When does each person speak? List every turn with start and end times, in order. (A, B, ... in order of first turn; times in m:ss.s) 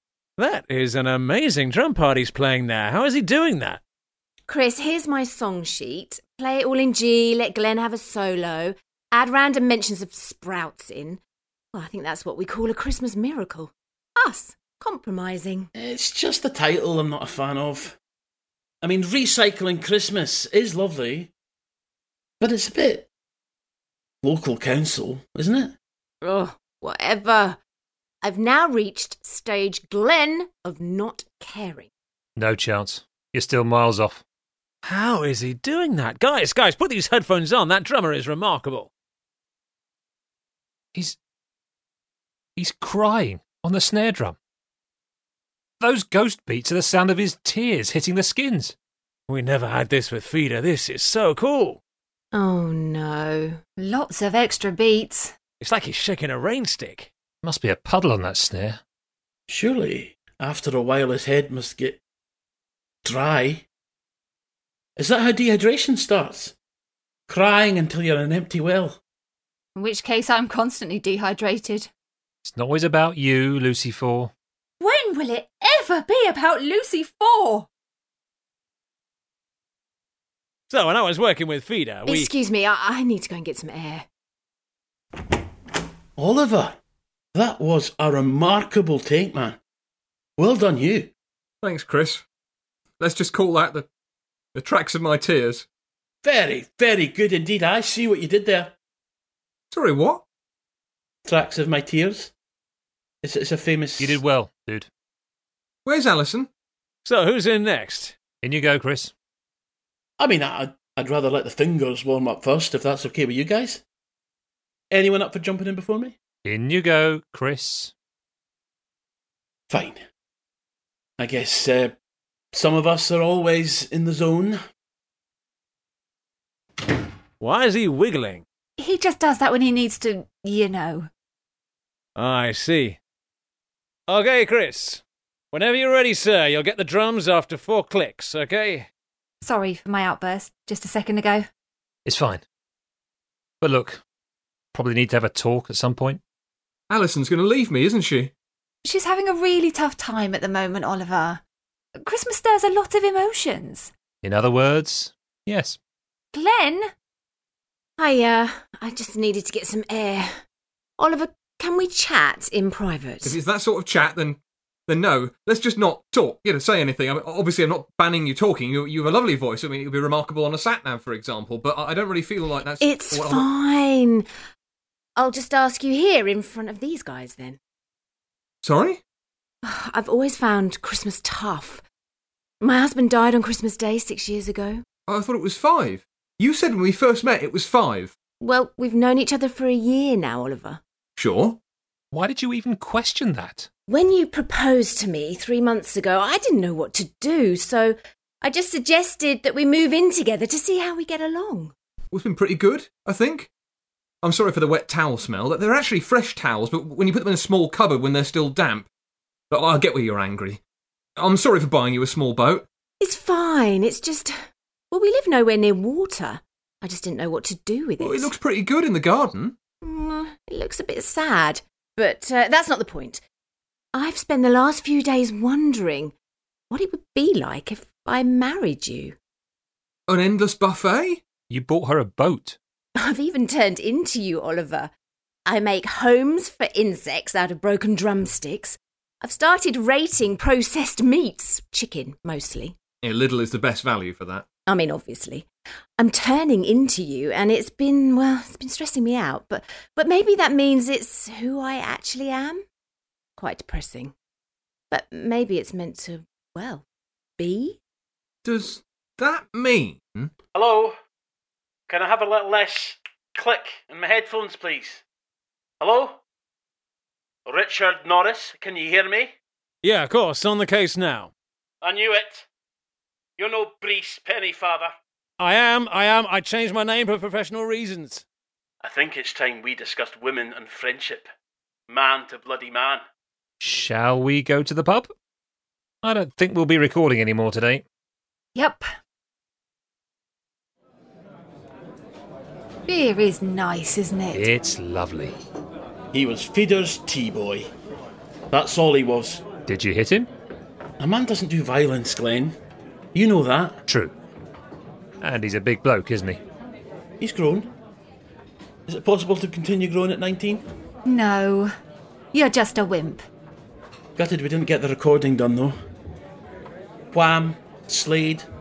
0:00.4-0:03.8 A
0:04.5-0:11.2 B
0:11.7-0:15.7 B
0:15.8-0:18.0 C
0:18.8-0:21.3 C
0:22.4-0:23.1 C
0:24.2-0:25.8 C
0:26.2-0:27.6 B
0:28.2-0:31.9 B
0:32.4-0:34.2 D
0:34.8-0:38.9 A
0:42.6-0:44.4 D
0:45.8-0:48.8 D
0:49.3-0:51.8 A
0:52.3-0:53.6 B
0:53.8-0:55.3 E
0:55.6-0:57.1 A
0:57.4-0:58.8 D
0:59.5-1:02.0 C
1:03.0-1:03.7 C
1:05.0-1:06.6 C
1:07.3-1:09.0 C
1:09.8-1:11.9 E
1:12.4-1:14.3 D
1:14.8-1:17.7 E
1:20.7-1:22.3 A
1:22.1-1:24.1 B
1:26.2-1:26.8 C
1:27.3-1:29.6 C
1:30.4-1:31.1 C
1:31.6-1:32.3 F
1:33.0-1:33.9 F
1:34.5-1:35.7 F
1:36.2-1:38.7 C
1:39.7-1:40.2 F
1:41.2-1:42.3 C
1:43.2-1:44.2 C
1:44.0-1:44.9 D
1:45.8-1:46.5 F
1:47.0-1:48.2 A
1:48.4-1:49.1 D
1:50.2-1:53.8 C
1:54.9-1:56.2 C
1:56.4-1:57.9 D
1:59.7-2:00.0 C
2:01.2-2:02.0 C
2:02.5-2:04.6 C
2:07.4-2:08.4 A
2:08.8-2:11.1 E
2:12.2-2:13.0 A
2:14.1-2:18.9 A
2:19.4-2:21.5 E
2:22.1-2:22.4 D
2:23.6-2:24.0 D
2:24.7-2:26.2 D
2:26.9-2:28.3 F
2:28.8-2:31.4 E
2:32.0-2:33.9 E
2:34.2-2:35.8 D
2:36.3-2:36.9 E
2:38.0-2:40.3 B
2:41.0-2:43.4 B
2:43.2-2:53.5 F
2:52.8-2:54.2 B
2:55.2-2:57.6 B
2:58.6-2:59.0 F
2:59.6-3:01.8 B
3:02.6-3:04.8 B
3:05.1-3:08.2 F
3:08.4-3:10.8 B
3:11.2-3:11.6 F
3:12.1-3:13.7 D
3:13.9-3:21.8 B
3:22.1-3:23.5 F
3:24.2-3:28.9 F
3:29.5-3:30.6 F
3:31.2-3:32.7 F
3:33.0-3:34.4 B
3:34.9-3:38.3 B
3:38.0-3:39.6 F
3:39.8-3:43.2 B
3:43.9-3:46.1 B
3:46.7-3:49.2 B
3:50.1-3:51.3 F
3:51.5-3:52.6 D
3:53.0-3:54.9 B
3:55.5-4:02.8 B
4:03.0-4:04.5 F
4:04.7-4:05.5 B
4:06.0-4:12.6 B
4:13.4-4:14.2 B
4:14.9-4:16.8 B
4:17.4-4:17.8 B
4:18.4-4:20.3 F
4:20.5-4:21.0 C
4:21.9-4:25.0 C
4:25.8-4:26.2 C
4:27.5-4:29.4 C
4:29.8-4:31.3 A
4:31.8-4:32.5 C
4:33.4-4:34.9 C
4:35.4-4:38.2 A
4:38.8-4:41.3 C
4:41.9-4:43.0 C
4:43.6-4:45.1 D
4:46.0-4:47.8 D
4:48.6-4:48.9 E
4:52.9-4:54.5 E
4:54.3-4:55.4 D
4:56.1-4:57.7 C
4:58.5-4:59.5 C
4:59.7-5:00.3 D
5:01.0-5:02.6 C
5:03.1-5:03.8 C
5:03.9-5:04.1 D
5:05.2-5:06.4 D
5:07.2-5:07.7 C
5:08.9-5:10.6 C
5:11.0-5:11.7 E
5:12.3-5:13.2 E
5:14.2-5:15.8 C
5:17.1-5:18.5 C